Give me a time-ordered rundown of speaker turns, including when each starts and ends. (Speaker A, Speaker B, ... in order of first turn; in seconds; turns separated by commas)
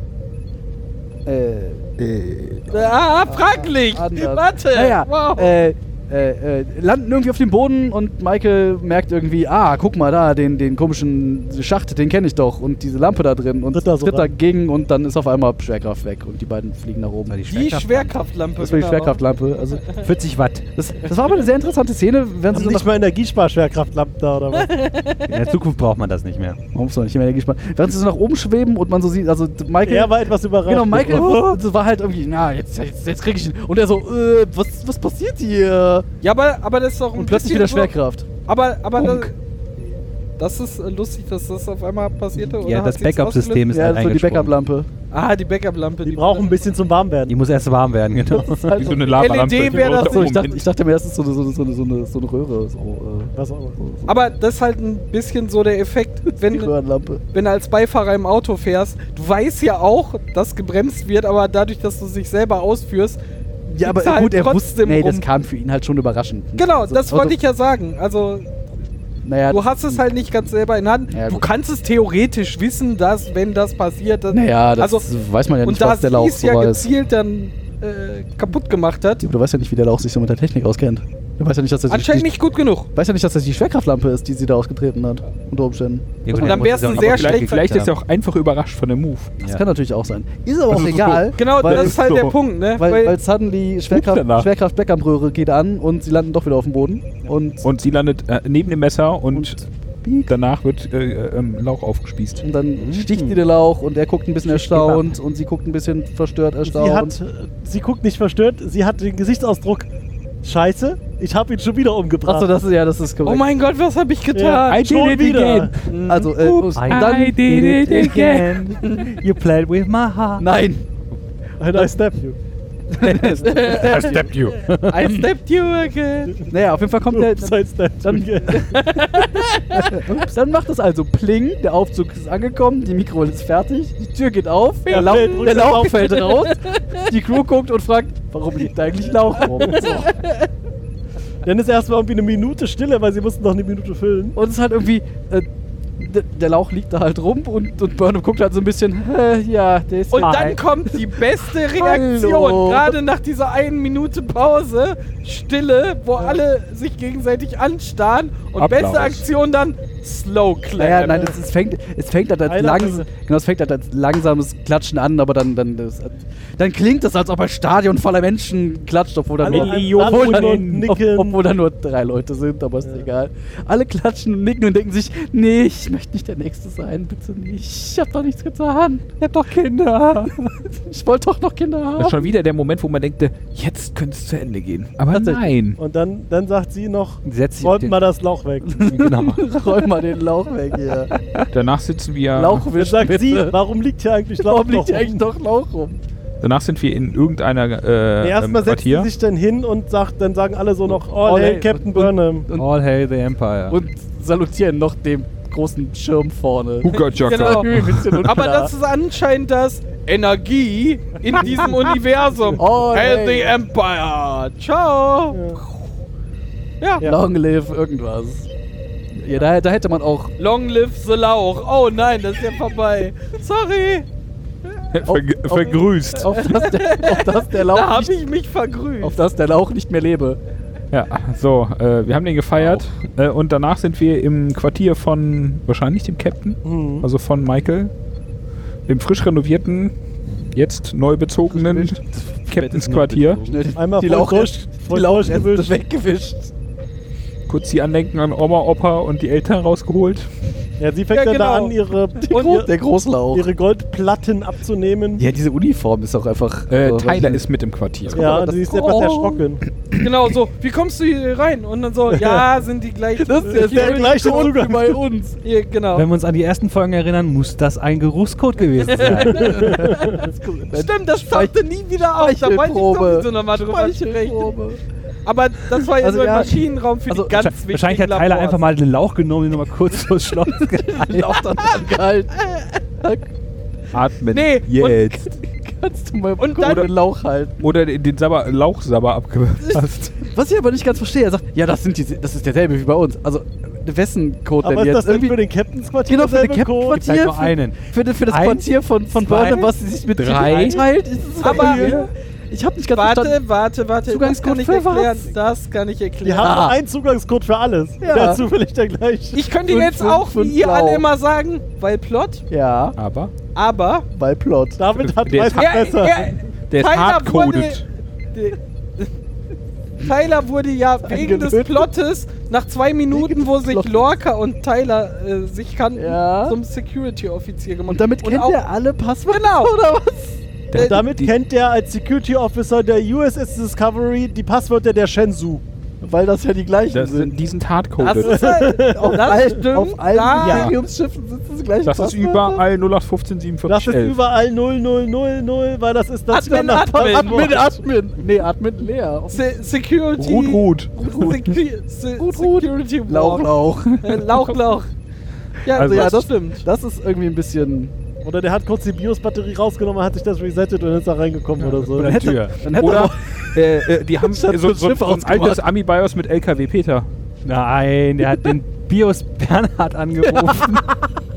Speaker A: 1.3-1.9, Speaker B: 2.0-2.6, Speaker A: 2.6-17.4, Speaker C: 2.7-5.5, Speaker D: 13.7-14.3, Speaker E: 17.3-18.2, Speaker C: 17.5-19.2, Speaker A: 18.6-19.9, Speaker E: 19.9-20.7, Speaker A: 20.8-22.9, Speaker D: 22.5-24.7, Speaker C: 24.6-25.3, Speaker E: 25.3-26.6, Speaker A: 26.7-30.1, Speaker D: 29.8-31.6, Speaker A: 30.6-36.1, Speaker C: 36.2-37.9, Speaker A: 37.2-38.3, Speaker C: 38.5-39.4, Speaker E: 39.0-39.3, Speaker C: 40.4-43.6, Speaker E: 42.5-44.5, Speaker A: 43.7-44.9, Speaker C: 45.1-46.5, Speaker D: 46.0-47.4, Speaker E: 47.3-48.9, Speaker A: 48.2-54.1, Speaker B: 48.8-50.7, Speaker C: 49.2-50.4, Speaker D: 53.3-53.8, Speaker C: 54.1-56.7, Speaker A: 56.3-57.2, Speaker C: 57.3-63.2, Speaker A: 63.7-67.4, Speaker C: 63.8-65.2, Speaker C: 66.6-68.5, Speaker A: 69.2-70.0, Speaker C: 69.5-75.0, Speaker A: 71.1-71.5, Speaker A: 74.3-76.9, Speaker C: 75.6-79.2, Speaker A: 79.2-82.3, Speaker C: 81.9-82.9, Speaker A: 82.9-86.9, Speaker E: 86.3-87.9, Speaker C: 86.4-87.7, Speaker B: 87.0-89.4, Speaker A: 89.4-92.0, Speaker B: 90.7-92.4, Speaker C: 91.4-93.1, Speaker A: 92.8-97.7, Speaker B: 93.9-94.5, Speaker B: 97.6-99.6, Speaker A: 99.3-100.3, Speaker B: 100.3-102.4, Speaker A: 102.4-107.2, Speaker E: 102.8-103.4, Speaker E: 104.5-105.0, Speaker D: 106.6-109.9, Speaker D: 110.4-112.5, Speaker A: 112.2-113.5, Speaker C: 113.2-114.8, Speaker D: 114.3-115.7, Speaker B: 114.7-118.6, Speaker C: 115.9-116.3, Speaker A: 116.1-118.4, Speaker E: 116.8-120.5, Speaker A: 120.4-120.8, Speaker D: 121.6-122.4, Speaker A: 123.0-124.3, Speaker E: 123.0-125.0, Speaker C: 123.4-124.1, Speaker C: 124.9-126.4, Speaker A: 126.5-128.6, Speaker D: 127.1-128.8, Speaker C: 128.5-129.9, Speaker A: 129.7-140.2, Speaker C: 134.9-137.1, Speaker D: 134.9-136.2, Speaker C: 139.7-140.4, Speaker D: 141.4-144.4, Speaker A: 144.4-145.5, Speaker A: 146.0-152.9, Speaker C: 150.1-161.4, Speaker B: 158.6-159.2, Speaker A: 160.8-179.1, Speaker D: 162.4-163.1, Speaker D: 169.4-171.4, Speaker B: 169.4-170.9, Speaker B: 179.2-180.4, Speaker A: 180.6-182.3, Speaker B: 182.0-185.8, Speaker A: 185.1-185.5, Speaker D: 185.8-188.8, Speaker E: 187.2-187.9, Speaker A: 188.6-191.1, Speaker E: 188.8-189.4, Speaker E: 191.2-191.4, Speaker B: 191.5-192.7, Speaker A: 192.3-193.6, Speaker D: 192.7-195.2, Speaker A: 194.4-196.0, Speaker B: 196.4-199.1, Speaker D: 198.2-202.5, Speaker A: 200.9-202.7, Speaker E: 202.5-203.8, Speaker A: 203.7-208.7, Speaker B: 206.8-208.2, Speaker C: 207.2-215.4, Speaker D: 208.3-208.7, Speaker D: 211.3-211.7, Speaker D: 212.4-212.8, Speaker A: 212.6-213.6, Speaker D: 215.3-215.6, Speaker C: 216.8-217.1, Speaker A: 217.0-218.5, Speaker A: 219.2-220.3, Speaker C: 220.4-224.1, Speaker B: 224.9-226.4, Speaker A: 225.1-228.2, Speaker C: 226.3-229.2, Speaker A: 229.0-230.4, Speaker B: 230.9-237.9, Speaker D: 236.6-237.1, Speaker B: 238.9-239.9, Speaker B: 240.5-243.5, Speaker A: 241.5-242.0, Speaker E: 242.5-243.6, Speaker A: 243.5-246.5, Speaker D: 243.7-245.7, Speaker B: 247.5-250.3, Speaker D: 250.8-252.7, Speaker C: 251.1-251.7, Speaker C: 252.3-252.7, Speaker A: 252.3-253.5, Speaker D: 253.3-255.2, Speaker A: 255.2-257.4, Speaker B: 256.7-258.3, Speaker D: 258.1-259.6, Speaker A: 258.2-259.2, Speaker C: 258.2-259.4, Speaker C: 260.0-264.4, Speaker D: 262.1-262.4, Speaker A: 263.2-265.4, Speaker D: 263.5-265.0, Speaker C: 265.4-266.1, Speaker E: 265.9-269.8, Speaker C: 268.8-274.6, Speaker A: 269.2-274.8, Speaker D: 269.3-270.3, Speaker C: 275.2-278.6, Speaker A: 275.9-277.4, Speaker E: 277.3-281.4, Speaker A: 280.9-283.3, Speaker C: 282.4-282.7, Speaker B: 283.9-285.3, Speaker C: 284.3-285.2, Speaker A: 285.3-287.6, Speaker C: 286.4-286.9, Speaker B: 286.6-286.9, Speaker B: 287.6-290.1, Speaker A: 289.7-295.4, Speaker D: 294.6-297.0, Speaker A: 296.1-303.4, Speaker E: 296.9-298.6, Speaker C: 299.2-299.7, Speaker B: 300.1-300.8, Speaker C: 301.4-302.1, Speaker D: 301.5-302.0, Speaker B: 301.6-301.9, Speaker C: 302.9-306.6, Speaker A: 304.1-305.2, Speaker D: 306.2-309.4, Speaker A: 306.4-306.8, Speaker A: 308.0-308.4, Speaker C: 309.3-312.4, Speaker A: 309.7-311.1, Speaker A: 312.5-312.9, Speaker B: 312.9-313.3, Speaker C: 313.6-314.1, Speaker A: 314.1-314.8, Speaker D: 314.8-316.3, Speaker B: 315.0-315.8, Speaker C: 315.5-319.1, Speaker B: 316.7-317.9, Speaker C: 320.0-328.6, Speaker A: 321.0-321.9, Speaker A: 323.1-324.1, Speaker A: 325.9-326.6, Speaker A: 327.9-330.4, Speaker C: 329.3-329.7, Speaker B: 330.7-331.3, Speaker C: 330.7-331.1, Speaker D: 330.8-335.6, Speaker A: 336.0-337.3, Speaker B: 336.9-338.4, Speaker C: 338.0-340.7, Speaker D: 338.2-339.3, Speaker A: 338.9-342.6, Speaker B: 340.4-340.7, Speaker B: 341.8-344.2, Speaker D: 343.7-347.7, Speaker C: 346.3-347.6, Speaker A: 346.6-349.5, Speaker C: 349.3-354.9, Speaker B: 350.2-351.4, Speaker A: 350.9-351.6, Speaker A: 352.2-354.4, Speaker C: 355.6-356.6, Speaker A: 355.7-357.9, Speaker B: 355.7-356.2, Speaker D: 358.2-362.2, Speaker E: 361.6-362.7, Speaker A: 361.9-363.6, Speaker B: 362.1-367.1, Speaker A: 364.1-365.6, Speaker E: 367.4-371.0